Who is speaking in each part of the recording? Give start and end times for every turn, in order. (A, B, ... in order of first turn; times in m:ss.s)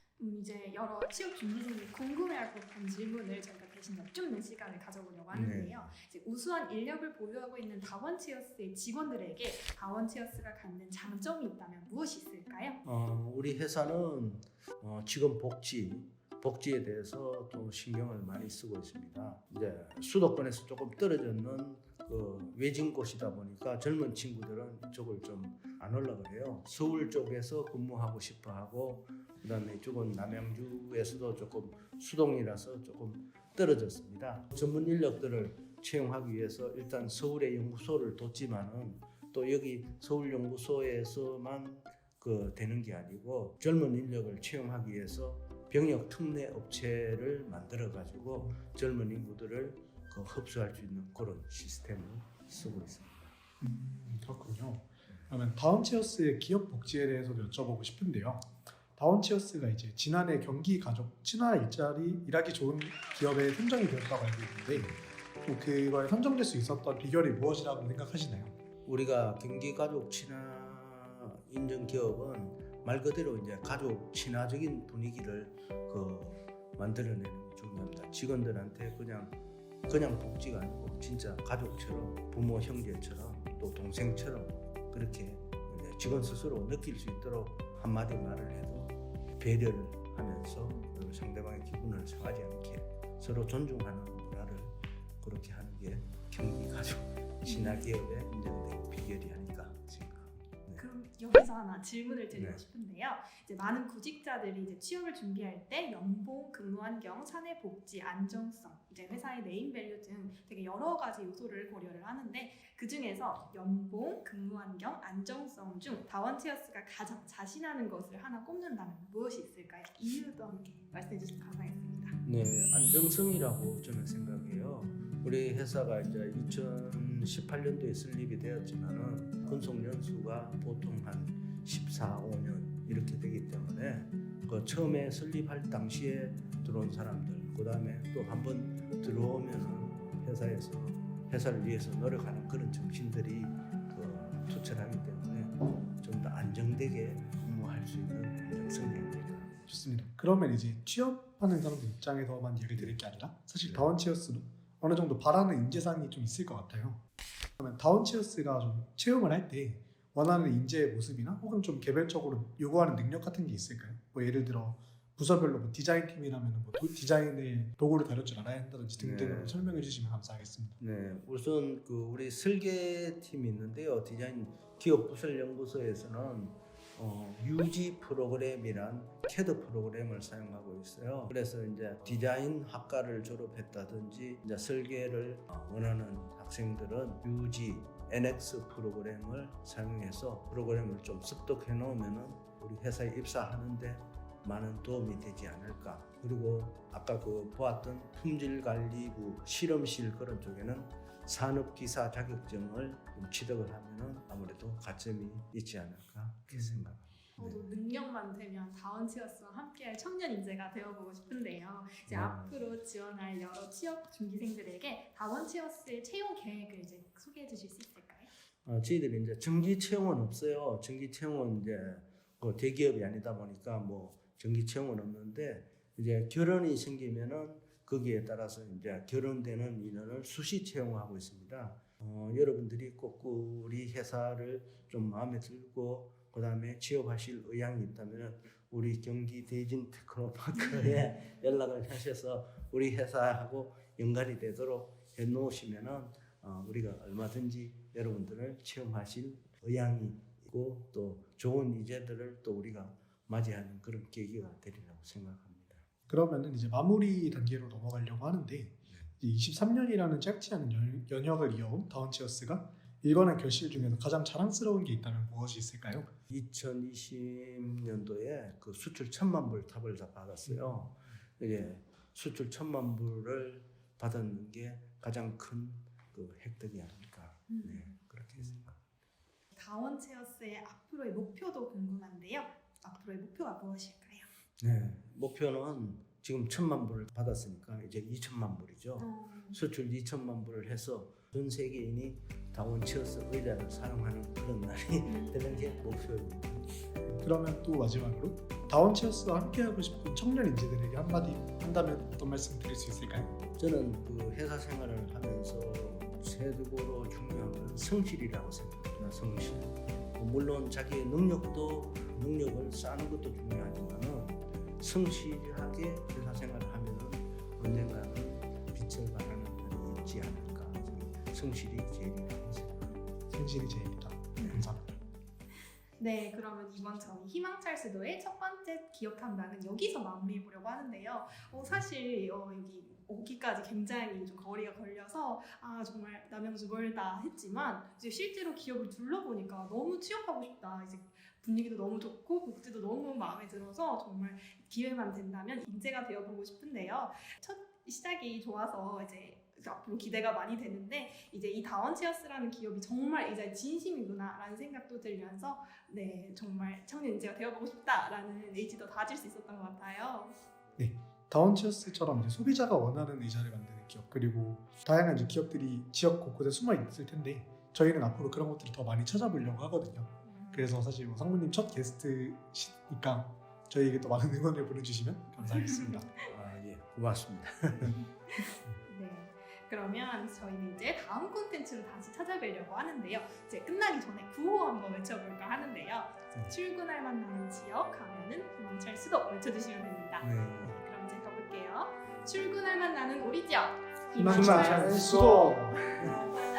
0:00.2-0:12.8 A
0:05.3-0:05.9 B
0:12.8-0:53.4 B
0:53.6-1:08.6 C
1:04.7-1:05.0 B
1:08.9-1:19.4 B
1:19.9-1:40.8 B
1:37.4-1:37.9 A
1:40.8-2:02.2 A
1:42.3-1:42.6 B
2:02.2-2:29.5 B
2:29.7-2:37.0 C
2:37.6-2:50.8 C
2:49.0-2:49.7 B
2:50.8-3:27.7 B
3:27.4-3:38.3 A
3:32.1-3:32.6 B
3:38.6-4:15.8 B
4:16.1-4:26.1 C
4:26.3-4:38.8 B
4:30.5-4:30.8 C
4:37.5-4:37.9 A
4:39.5-4:44.3 A
4:44.6-4:56.7 B
4:49.0-4:49.6 A
4:55.1-4:55.7 A
4:57.1-5:03.3 C
5:03.6-5:22.9 B
5:23.3-5:25.0 C
5:24.4-5:24.6 A
5:26.0-6:00.3 A
6:00.8-6:16.1 C
6:10.2-6:10.7 A
6:15.5-6:16.2 A
6:16.2-6:18.0 B
6:18.3-6:35.0 A
6:30.2-6:30.8 B
6:34.2-6:35.8 C
6:34.2-6:36.2 B